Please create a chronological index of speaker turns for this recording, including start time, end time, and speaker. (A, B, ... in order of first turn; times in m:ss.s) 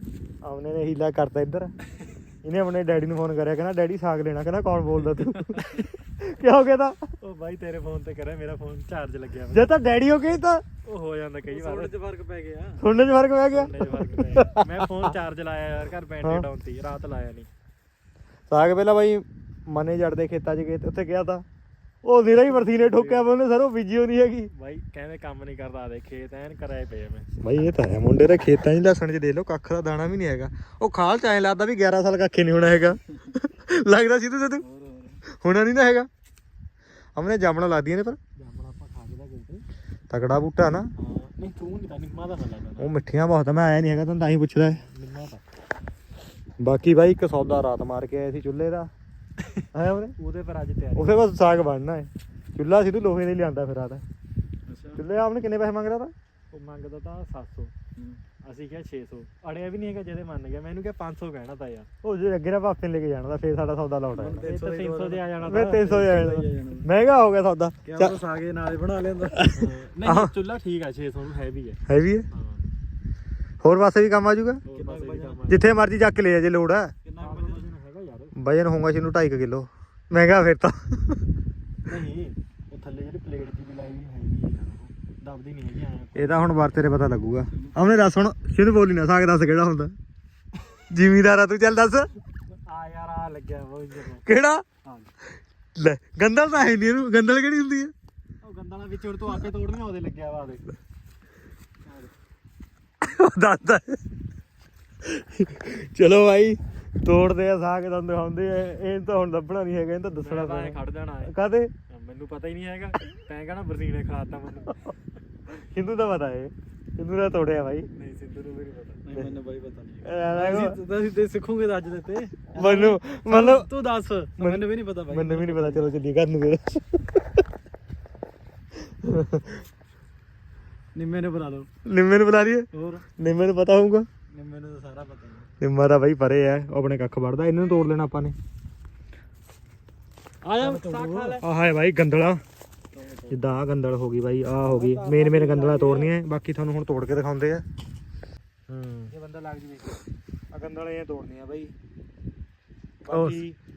0:00.4-0:01.7 A
0:02.4-0:07.0 A
0:05.4-0:05.9 B
0:07.2-0:09.6 B
0:09.5-0:10.6 A
0:10.8-0:12.0 B
0:11.5-0:12.8 C
0:12.8-0:14.8 A
0:13.5-0:17.5 B
0:18.5-0:21.4 A
0:22.0-0:24.5 A
0:22.3-0:23.3 B
0:24.5-0:27.3 B
0:27.4-0:34.6 A
0:34.7-0:35.2 C
0:35.3-0:36.1 A
0:37.1-0:38.2 A
0:38.4-0:39.6 B
0:40.1-0:40.9 A
0:41.0-0:43.0 B
0:42.8-0:44.8 A
0:44.8-0:45.4 B
0:46.6-0:48.9 A
0:49.7-0:50.1 A
0:50.2-0:51.2 B
0:51.0-0:54.0 A
0:54.7-0:55.0 C
0:55.0-0:56.1 A
0:56.5-0:57.7 B
0:58.0-0:58.2 C
0:58.4-1:01.9 B
1:02.0-1:04.4 A
1:04.2-1:05.3 C
1:04.4-1:06.4 B
1:05.5-1:08.2 A
1:05.8-1:06.9 C
1:07.8-1:09.7 C
1:09.5-1:11.8 B
1:09.6-1:10.3 A
1:11.9-1:12.2 A
1:12.3-1:12.6 B
1:13.6-1:14.6 A
1:14.7-1:15.6 B
1:14.7-1:15.5 C
1:15.5-1:16.9 A
1:17.0-1:17.7 C
1:17.2-1:18.3 B
1:18.3-1:21.2 A
1:21.8-1:26.4 B
1:26.1-1:29.9 A
1:30.9-1:32.1 A
1:32.6-1:34.2 B
1:34.2-1:34.6 A
1:35.8-1:37.9 A
1:38.4-1:40.6 B
1:43.0-1:44.0 A
1:45.0-1:51.7 A
1:50.2-1:51.3 B
1:51.9-1:54.9 B
1:55.5-1:57.9 A
1:58.0-1:59.1 B
1:59.0-2:02.8 C
2:00.0-2:00.8 A
2:00.4-2:01.1 B
2:01.9-2:04.5 B
2:02.5-2:03.7 A
2:04.4-2:05.4 C
2:04.4-2:07.2 A
2:05.4-2:05.7 B
2:08.9-2:09.6 A
2:11.0-2:11.7 C
2:11.8-2:14.1 A
2:12.7-2:13.0 C
2:14.3-2:15.5 C
2:15.6-2:18.4 A
2:20.4-2:21.4 B
2:20.6-2:21.4 C
2:21.3-2:22.4 A
2:22.9-2:23.4 C
2:23.3-2:27.6 A
2:24.7-2:25.9 B
2:24.8-2:26.1 C
2:28.7-2:29.1 B
2:29.1-2:29.9 A
2:30.5-2:31.7 A
2:33.0-2:33.6 A
2:33.1-2:33.4 B